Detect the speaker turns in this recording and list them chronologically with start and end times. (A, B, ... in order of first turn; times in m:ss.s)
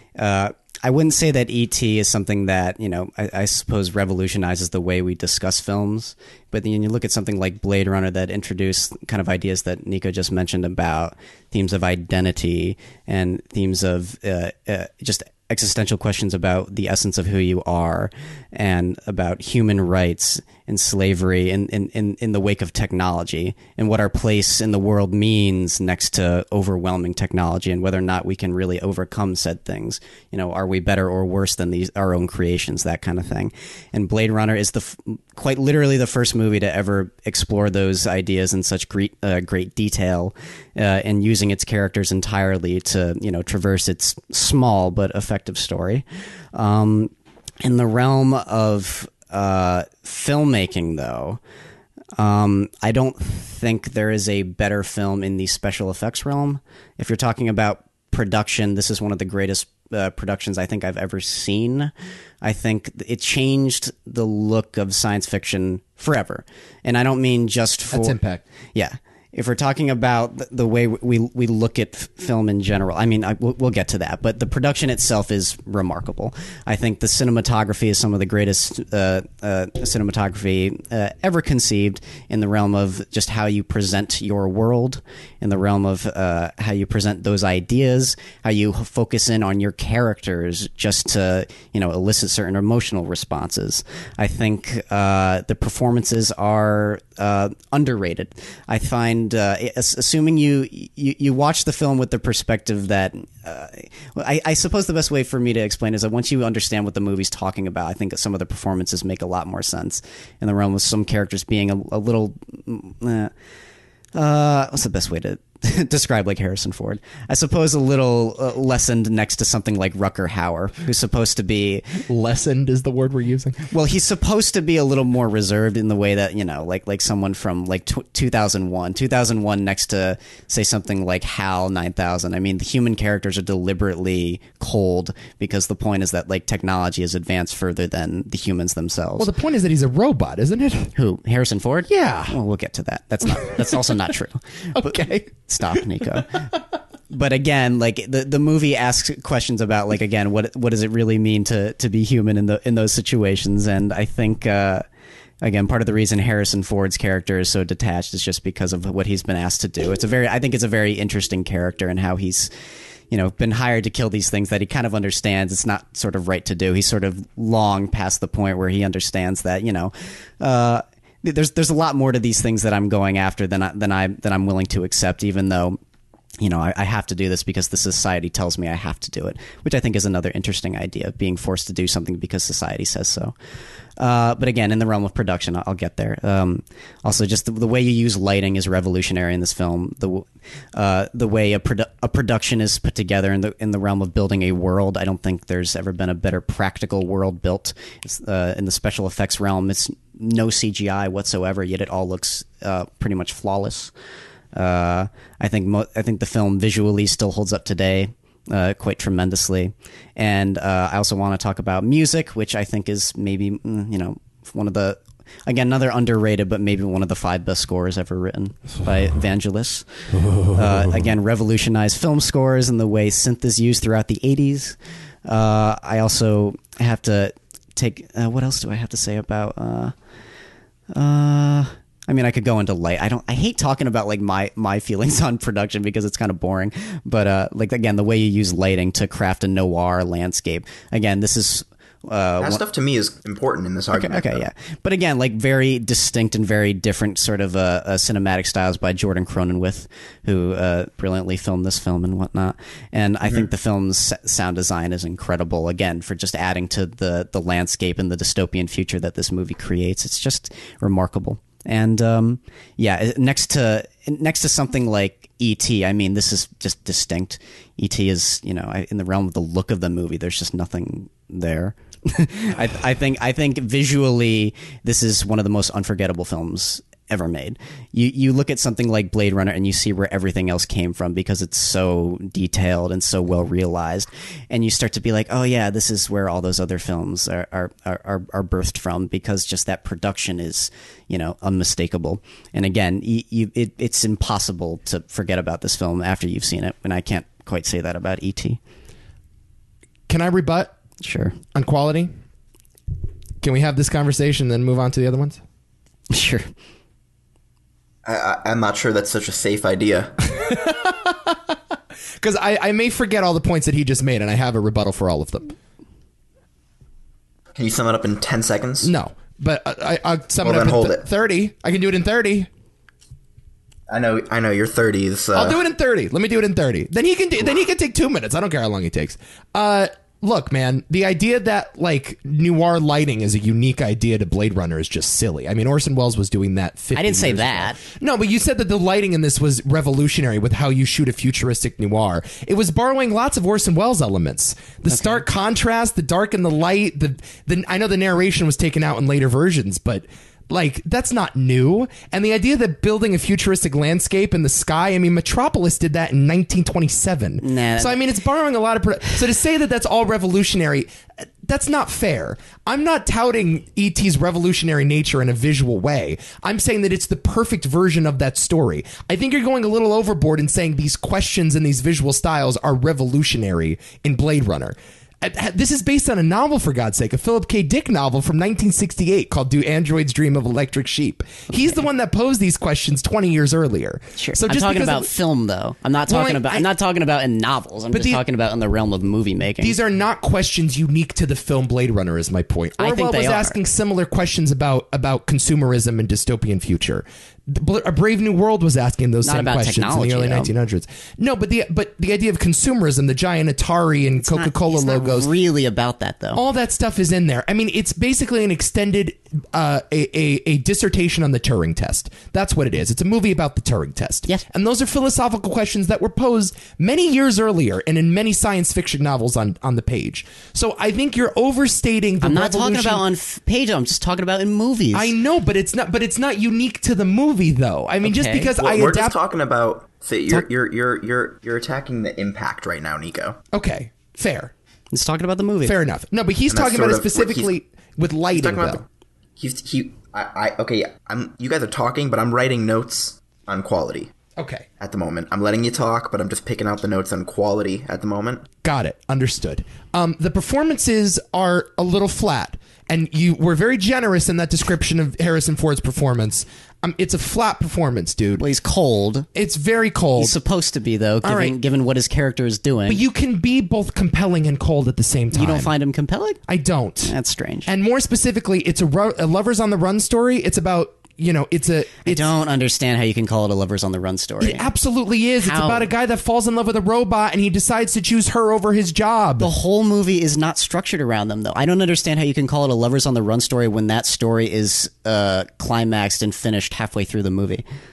0:00.2-0:51.4 A
0:52.2-1:08.2 A
1:07.9-1:08.4 B
1:08.7-1:53.3 A
1:54.1-2:02.0 A
2:02.1-2:03.6 B
2:03.7-2:19.3 A
2:19.2-2:20.9 B
2:21.0-2:26.5 A
2:21.9-2:22.4 B
2:24.8-2:25.1 B
2:27.1-2:34.8 A
2:35.4-2:42.5 A
2:43.1-2:55.8 A
2:56.4-3:03.3 A
3:04.0-3:23.9 A
3:24.5-3:39.8 A
3:40.3-3:40.8 B
3:40.4-3:49.9 A
3:50.9-4:02.6 A
4:02.4-4:04.4 C
4:03.9-4:58.6 A
5:00.1-5:00.7 B
5:01.0-5:01.4 A
5:01.5-5:02.1 B
5:03.4-5:05.4 B
5:06.1-5:06.5 A
5:08.0-5:10.3 C
5:10.3-5:11.6 B
5:12.2-5:15.5 B
5:17.5-5:18.9 C
5:18.8-5:22.5 B
5:20.4-5:21.0 C
5:23.9-5:25.6 C
5:25.3-6:25.1 B
5:36.9-5:37.8 A
5:44.9-5:45.2 A
5:57.4-5:58.0 A
6:24.2-6:29.8 A
6:26.1-6:26.6 B
6:27.9-6:28.2 B
6:29.6-6:45.3 B
6:32.8-6:33.6 A
6:39.2-6:40.5 A
6:44.2-6:46.4 A
6:46.3-7:03.0 B
7:02.2-7:05.1 A
7:04.9-7:09.2 B
7:08.0-7:08.5 A
7:08.6-7:13.4 C
7:13.5-7:14.5 B
7:14.9-7:15.8 A
7:15.6-7:18.8 B
7:16.5-7:17.5 C
7:18.3-7:18.8 C
7:19.4-7:24.1 C
7:24.4-7:24.6 B
7:24.8-7:28.4 C
7:28.6-7:38.4 B
7:38.4-7:39.3 A
7:39.3-7:40.4 B
7:40.2-7:43.0 A
7:41.2-7:41.6 B
7:42.9-7:45.7 B
7:45.3-7:46.4 A
7:46.5-7:47.1 B
7:47.0-7:47.7 A
7:47.6-7:52.3 B
7:52.0-7:54.7 A
7:54.4-7:59.5 B
7:55.4-7:55.9 A
7:59.4-8:07.6 A